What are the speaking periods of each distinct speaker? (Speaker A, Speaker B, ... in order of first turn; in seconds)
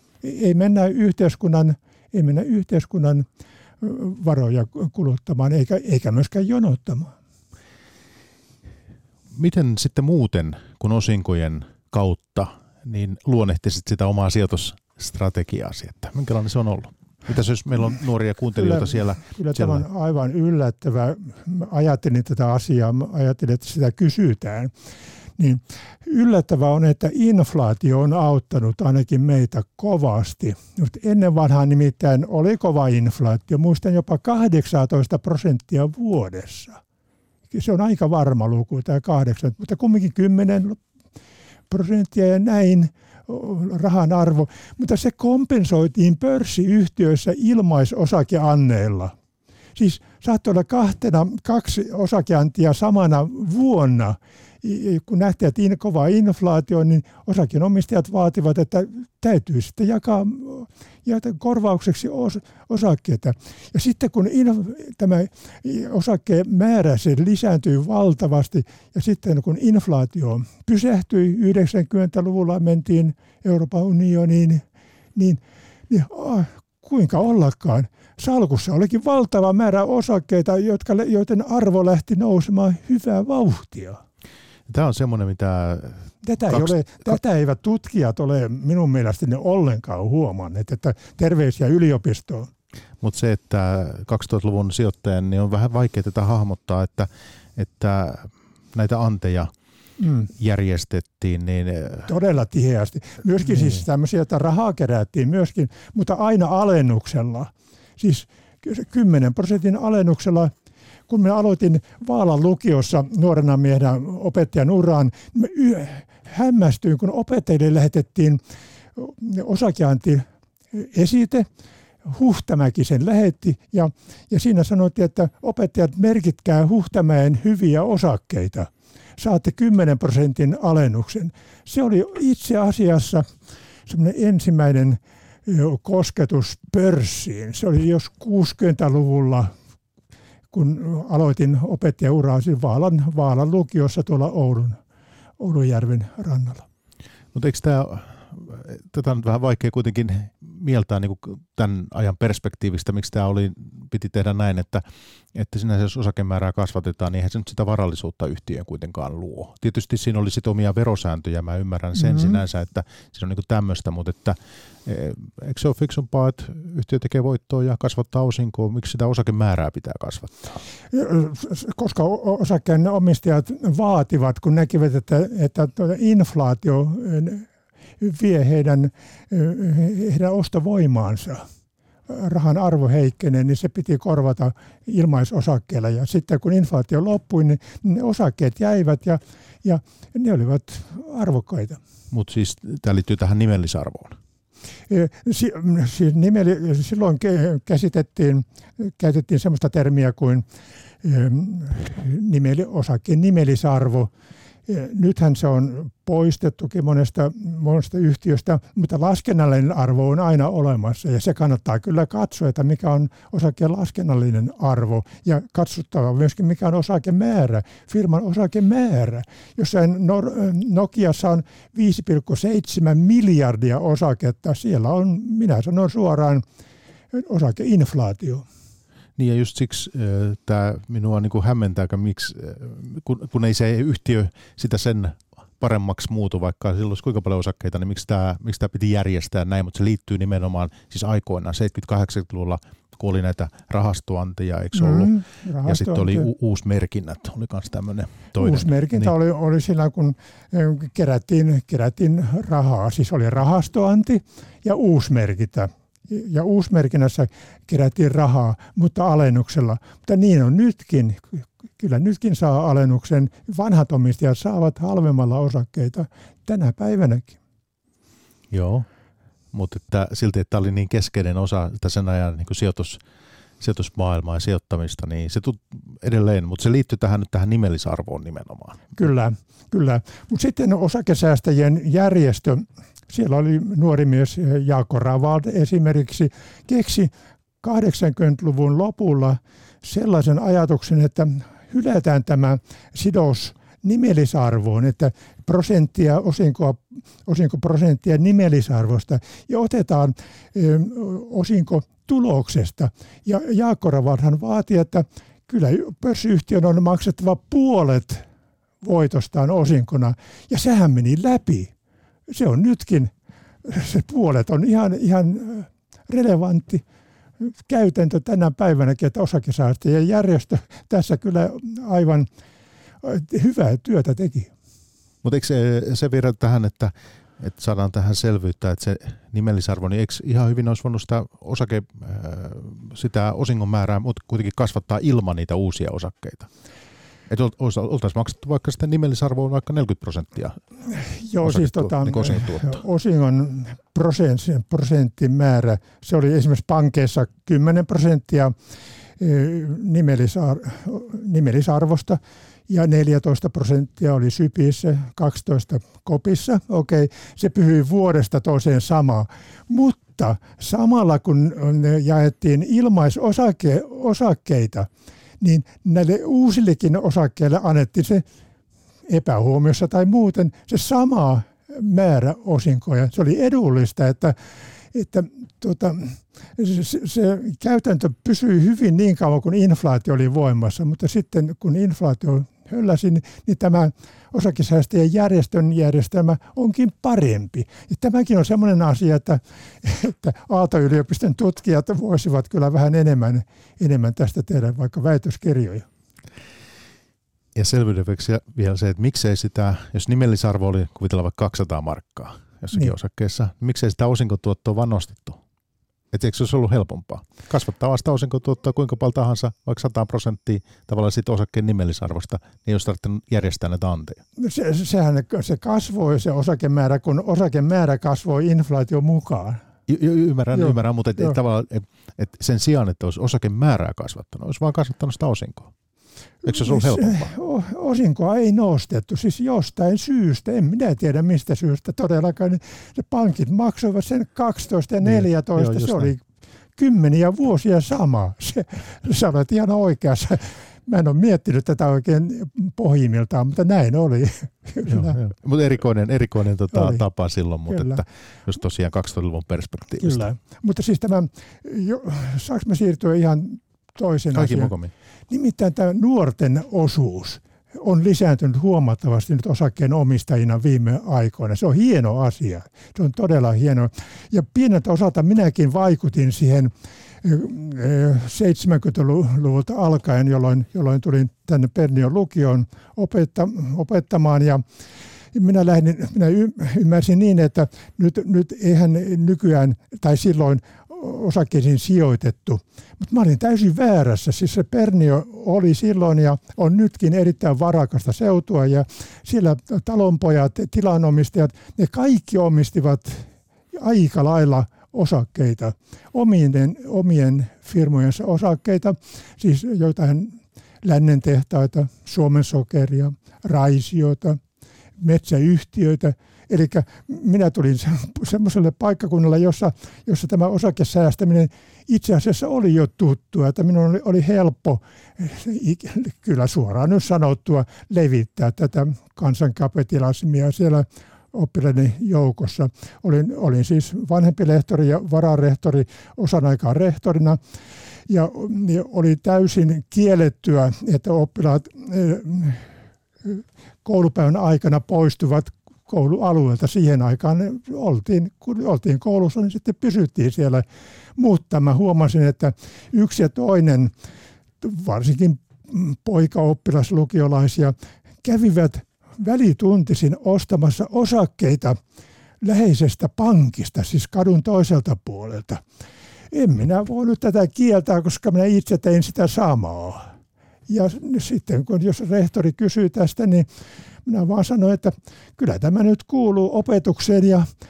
Speaker A: 0.2-3.2, 3.8-7.1, 18.5-24.7, 25.4-36.8, 37.5-40.8, 41.7-49.1, 49.8-74.6, 75.2-84.0, 86.2-92.5, 100.0-100.3, 102.0-110.5, 111.1-118.4, 119.0-121.5, 122.0-133.2, 133.8-139.5, 140.5-144.8, 145.4-146.6, 162.0-162.4, 170.9-177.5, 178.0-181.4, 182.1-191.8, 194.9-200.4, 201.0-204.1, 204.7-226.4, 227.1-228.4, 244.7-246.3, 248.4-267.4, 278.9-287.1, 287.6-308.2, 308.8-311.7, 312.3-313.1, 313.6-316.8, 317.4-322.3, 323.0-324.5, 340.9-348.5, 349.2-364.9, 365.4-368.2, 369.1-374.4, 374.9-395.9, 414.4-419.6, 420.5-421.3, 426.4-436.2, 436.8-445.2, 446.7-447.0, 447.7-448.0, 450.0-454.7, 455.3-466.7, 467.2-474.6, 475.3-504.4, 505.0-527.4, 528.1-532.7, 533.2-540.6, 541.2-543.9, 544.6-551.8, 552.4-555.6, 556.3-560.1, 560.7-563.5, 564.0-567.5
Speaker B: 9.3-19.8, 84.7-86.7, 93.0-99.5, 100.3-102.1, 147.3-170.6, 192.1-194.2, 229.2-249.1, 268.5-268.9, 269.5-273.0, 273.6-278.8, 325.2-336.5, 337.3-340.6, 341.4-342.8, 397.5-405.4, 406.1-414.2, 419.9-425.7, 426.4-427.3, 435.0-436.1, 444.9-450.3, 454.3-454.9